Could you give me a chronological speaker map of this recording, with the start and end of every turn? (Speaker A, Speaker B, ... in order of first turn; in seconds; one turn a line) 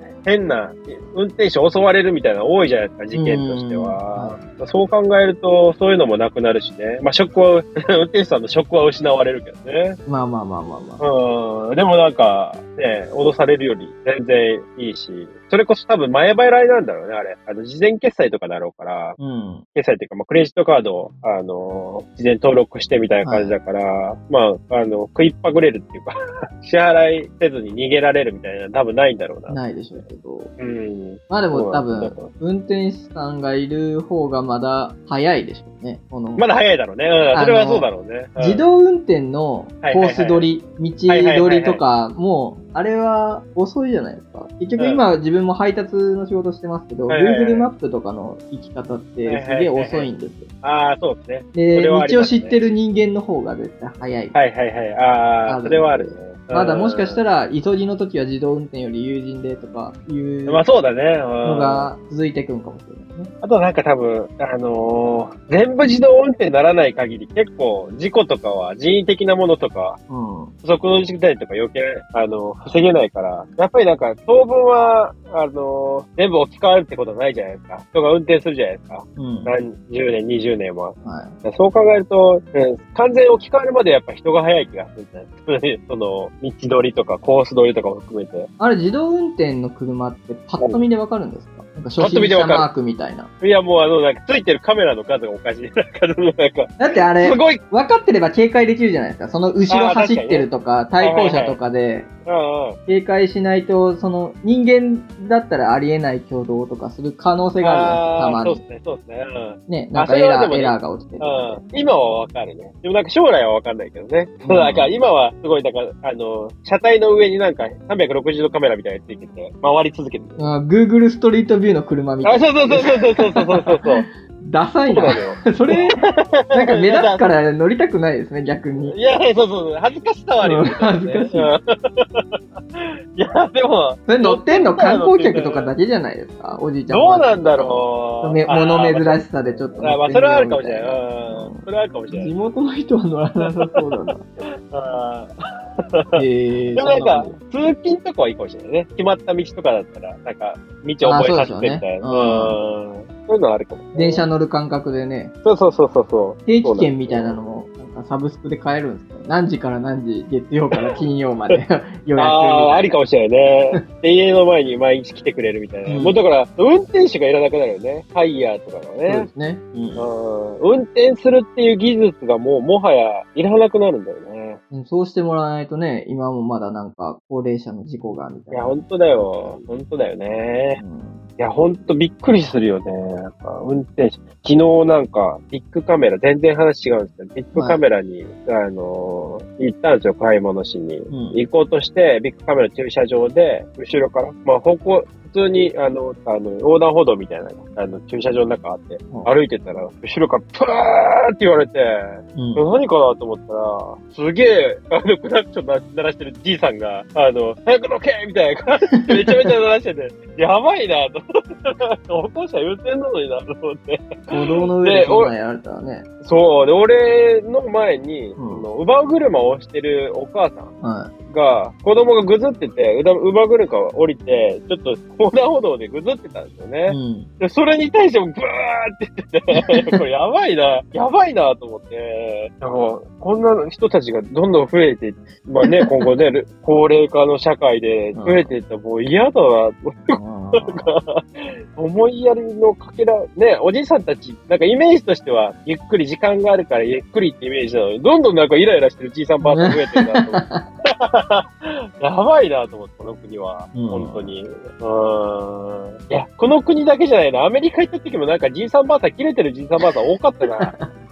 Speaker A: 0.2-10.0
Speaker B: 3.1-4.4
Speaker B: 10.1-11.0
Speaker A: 11.0-19.2
Speaker B: 19.2-19.6
Speaker A: 19.8-29.6
Speaker B: 23.2-23.6
Speaker B: 29.5-30.5
Speaker A: 30.6-32.3
Speaker B: 31.3-36.4
Speaker A: 36.4-38.6
Speaker B: 37.3-50.5
Speaker A: 39.8-40.5
Speaker A: 41.1-41.8
Speaker A: 47.1-47.7
Speaker A: 49.3-50.1
Speaker A: 50.6-52.6
Speaker B: 51.5-54.4
Speaker A: 54.3-57.2
Speaker B: 55.5-60.6
Speaker A: 60.5-61.9
Speaker B: 61.4-63.3
Speaker A: 63.4-70.0
Speaker B: 70.1-70.5
Speaker A: 70.6-88.5
Speaker B: 79.2-79.5
Speaker B: 81.0-81.3
Speaker B: 88.6-93.3
Speaker A: 92.0-92.7
Speaker A: 93.4-97.6
Speaker B: 96.8-102.1
Speaker A: 99.7-100.5
Speaker A: 101.0-101.6
Speaker A: 102.3-102.8
Speaker B: 102.9-108.6
Speaker A: 107.6-120.4
Speaker B: 109.7-111.6
Speaker B: 114.5-114.9
Speaker B: 120.4-126.0
Speaker A: 122.2-124.1
Speaker A: 124.9-127.3
Speaker B: 126.5-129.0
Speaker A: 128.8-135.7
Speaker B: 130.4-131.5
Speaker B: 134.1-144.2
Speaker A: 136.9-142.3
Speaker A: 144.7-146.2
Speaker B: 146.2-147.4
Speaker A: 146.8-154.2
Speaker B: 151.0-152.6
Speaker B: 153.9-155.3
Speaker A: 155.4-157.4
Speaker B: 156.5-162.9
Speaker A: 160.7-161.0
Speaker A: 162.2-169.3
Speaker B: 165.9-166.2
Speaker B: 169.1-170.1
Speaker A: 170.0-174.6
Speaker B: 174.7-179.6
Speaker A: 178.5-180.8
Speaker B: 180.8-181.3
Speaker A: 181.4-215.3
Speaker B: 187.6-187.8
Speaker B: 191.1-191.4
Speaker B: 202.3-202.6
Speaker B: 208.9-209.5
Speaker B: 214.3-216.1
Speaker A: 216.2-220.7
Speaker B: 218.4-218.7
Speaker B: 220.8-221.1
Speaker A: 221.3-250.4
Speaker B: 226.9-227.3
Speaker B: 229.6-230.0
Speaker B: 235.6-235.9
Speaker B: 238.1-238.5
Speaker B: 240.1-240.9
Speaker B: 249.4-250.7
Speaker A: 251.0-260.7
Speaker B: 253.7-254.3
Speaker B: 260.6-260.9